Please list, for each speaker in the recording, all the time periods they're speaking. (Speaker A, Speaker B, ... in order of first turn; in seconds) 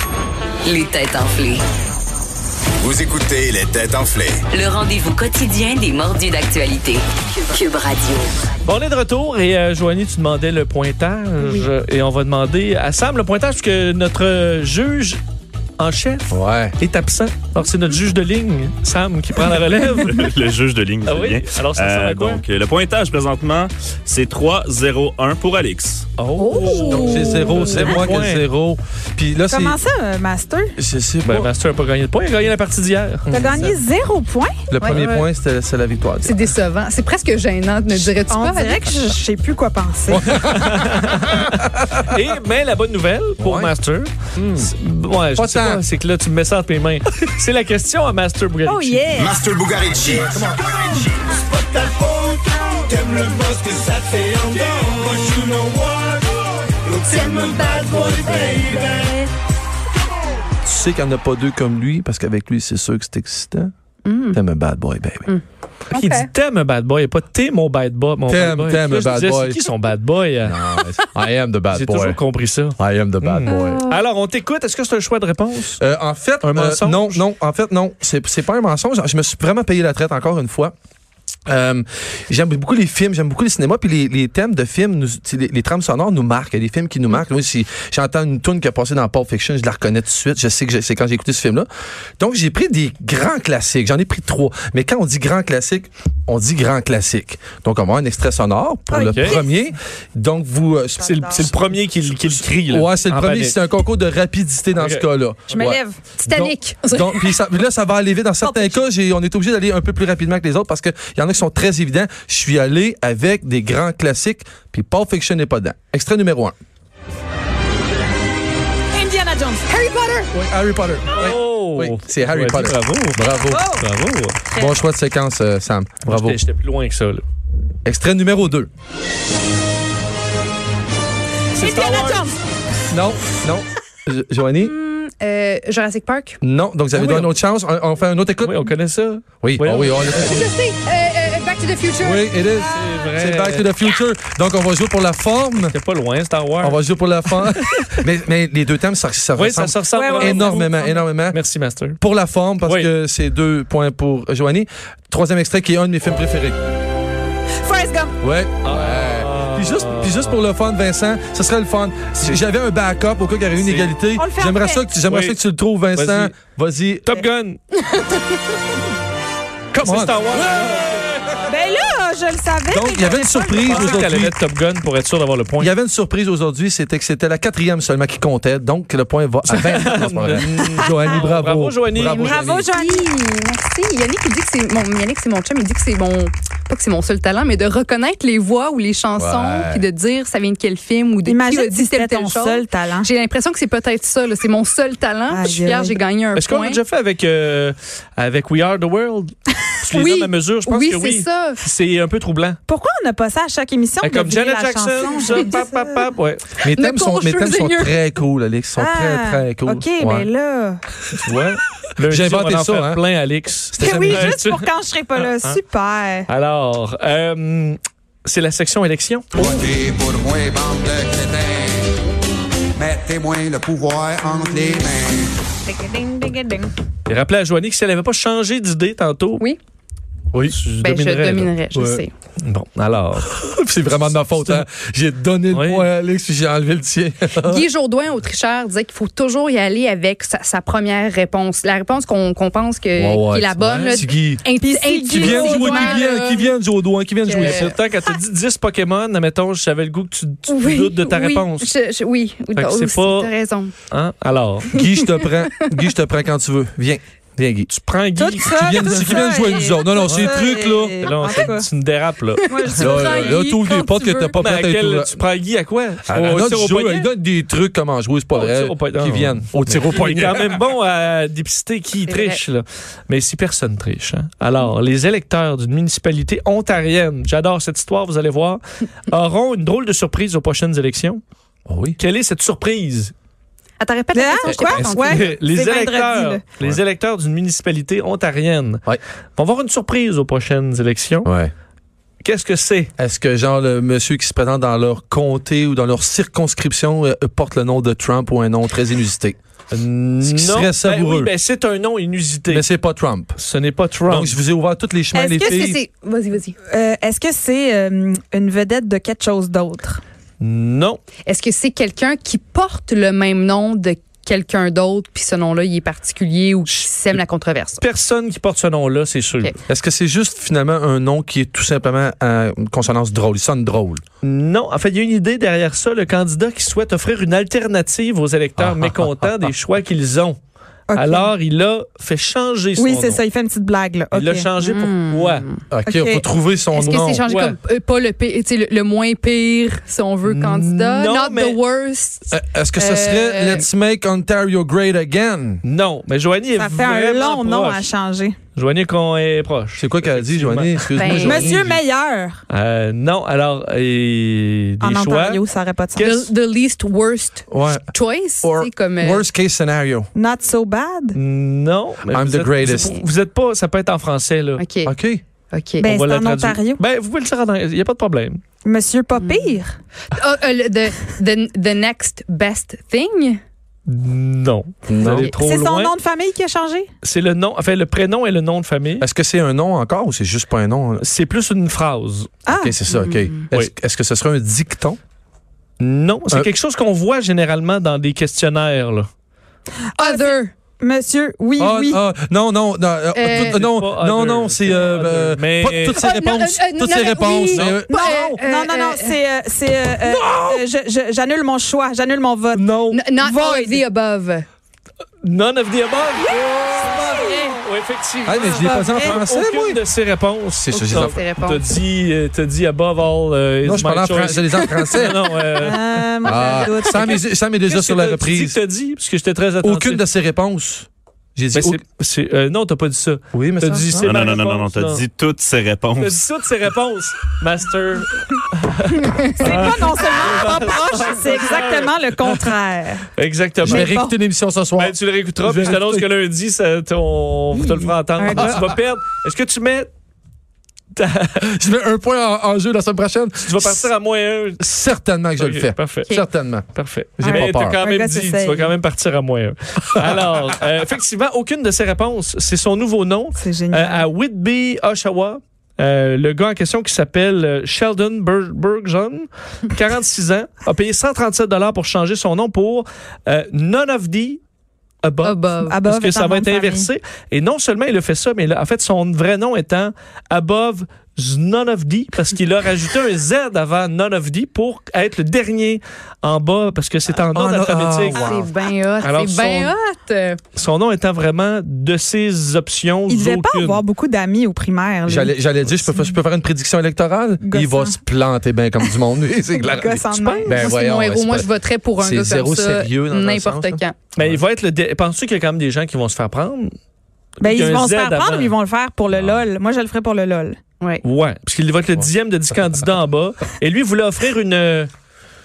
Speaker A: 0.6-1.6, 4.5-8.3
Speaker B: 2.8-4.4, 49.1-51.0, 51.8-55.7, 56.9-58.4
Speaker C: 8.6-15.2, 15.8-20.2, 21.0-22.4, 26.2-28.4, 31.2-33.7, 40.3-49.0, 65.9-70.6, 71.7-75.8, 76.4-77.2, 99.1-99.4, 101.1-103.6, 104.8-105.5, 121.1-124.4, 126.0-127.2, 131.5-132.3, 136.9-137.3, 138.4-140.1, 142.7-143.7, 145.6-147.9, 149.3-150.7, 151.3-152.0, 152.6-152.9, 158.6-160.4, 163.6-163.9, 165.1-165.4, 165.9-166.3, 167.0-167.6, 169.7-171.4, 173.6-175.7, 179.5-182.4, 196.3-202.6, 204.0-206.4, 211.2-215.6, 216.3-219.6, 227.1-229.5, 230.4-231.5, 232.4-233.4, 233.9-234.6, 235.5-235.9, 243.6-244.0, 247.3-251.7, 252.5-253.3, 253.9-254.7, 257.7-258.9, 260.0-260.3, 261.0-262.5, 264.3-267.1, 268.3-281.2, 282.0-283.1, 284.5-288.8, 289.4-291.3, 292.2-292.9, 299.7-302.6, 303.4-304.4, 310.4-311.0, 316.7-317.2, 317.8-319.5, 324.2-330.4, 330.9-333.2, 334.1-335.4, 337.2-337.6, 340.2-341.6, 345.6-347.9, 348.6-351.8, 352.5-355.4, 356.0-356.3, 361.1-364.6, 365.9-368.4, 373.9-375.9, 377.0-379.1, 381.0-382.3, 385.8-389.1, 393.2-396.0, 397.5-397.8, 405.2-415.8, 416.3-416.6, 417.6-420.0, 421.5-425.0, 426.0-432.0, 433.1-433.9, 434.8-439.9, 440.9-441.4, 443.4-444.6, 445.4-446.1, 446.7-464.4, 465.0-478.4, 479.0-479.7, 480.5-483.8, 489.9-490.6, 494.1-496.7, 497.4-498.5, 501.0-504.9
Speaker D: 16.3-16.8, 26.9-29.8, 30.8-31.5, 34.7-36.5, 40.1-42.1, 43.4-43.7, 44.3-44.7, 45.4-45.8, 60.6-63.7, 64.3-65.3, 68.3-69.6, 70.4-72.2, 72.8-73.8, 75.8-80.7, 81.5-91.7, 92.2-116.5, 120.3-123.7, 124.5-126.4, 127.8-128.7, 132.9-134.7, 136.4-138.7, 139.4-140.5, 142.0-145.7, 146.6-151.4, 152.0-156.6, 158.2-167.2, 169.8-171.2, 172.7-174.3, 175.6-182.7, 189.2-189.9, 206.6-210.3, 211.2-211.5, 212.0-213.0, 213.7-214.3, 231.7-232.0, 233.3-237.6, 242.9-244.4, 245.1-247.7, 254.7-257.7, 258.5-261.5, 262.8-265.2, 266.1-270.6, 281.7-282.0, 291.2-291.5, 293.0-299.4, 300.2-301.3, 302.5-303.4, 304.1-305.8, 319.7-324.0, 328.6-329.5, 335.7-337.2, 342.3-345.6, 349.8-351.6, 357.5-357.9, 358.4-360.1, 362.1-362.9, 364.8-365.2, 374.9-375.3, 379.0-381.0, 382.5-385.0, 391.6-398.0, 400.2-400.5, 402.5-403.0, 408.2-409.8, 410.5-411.2, 413.6-415.3, 416.2-418.6, 419.6-421.8, 423.3-424.3, 433.6-436.1, 438.3-438.7, 441.4-443.9, 444.6-447.8, 477.2-478.4, 485.1-489.9, 490.5-494.4
Speaker E: 20.0-26.1, 424.0-426.2
Speaker F: 26.4-27.9, 34.8-35.3, 36.2-38.8, 57.5-59.0, 64.0-64.4, 65.2-66.3, 73.5-74.0, 106.2-107.4, 134.6-136.4, 140.1-142.3, 167.9-168.2, 182.7-196.8, 199.9-201.6, 206.7-208.0, 230.8-232.1, 237.4-246.6, 247.2-247.8, 250.5-253.7, 254.8-255.3, 262.6-264.4, 272.1-272.4, 283.8-285.3, 305.4-306.6, 311.2-317.8, 334.6-335.6, 336.7-343.7, 351.0-351.4, 356.0-359.2, 362.7-363.1, 364.6-364.9, 365.5-365.9, 369.1-369.6, 370.1-373.4, 375.0-375.4, 382.9-383.4, 390.0-390.5, 393.1-393.6, 395.9-399.1, 402.9-404.4, 410.7-411.6, 465.2-465.8, 478.0-480.4, 490.5-493.9
Speaker G: 29.5-30.7, 33.3-34.5, 38.3-40.3, 48.6-49.4, 57.3-58.3, 58.8-59.2, 98.9-99.5, 101.0-101.5, 105.5-106.0, 108.4-108.8, 118.9-120.3, 123.3-123.8, 131.6-132.4, 142.6-143.1, 149.9-151.0, 157.6-158.2, 164.1-164.9, 171.4-174.1, 182.2-183.1, 191.2-193.1, 195.3-196.0, 202.7-206.1, 208.8-210.8, 213.8-216.3, 225.6-226.7, 244.6-245.9, 258.1-261.7, 262.5-263.4, 284.1-286.4, 305.1-305.7, 306.7-310.0, 330.9-331.3, 332.8-334.5, 335.9-336.2, 346.6-348.4, 351.2-352.4, 354.8-356.1, 360.1-361.1, 365.8-366.8, 368.6-369.7, 375.4-376.9, 382.4-382.8, 389.9-392.0, 397.9-403.8, 406.3-407.6, 408.6-409.2, 415.6-417.2, 429.2-433.0, 433.6-434.1, 437.5-438.7, 447.2-448.7, 453.3-454.1, 465.6-466.9, 483.1-486.1, 487.4-488.0, 489.6-490.6, 497.4-500.6
Speaker H: 219.6-221.9, 222.8-225.3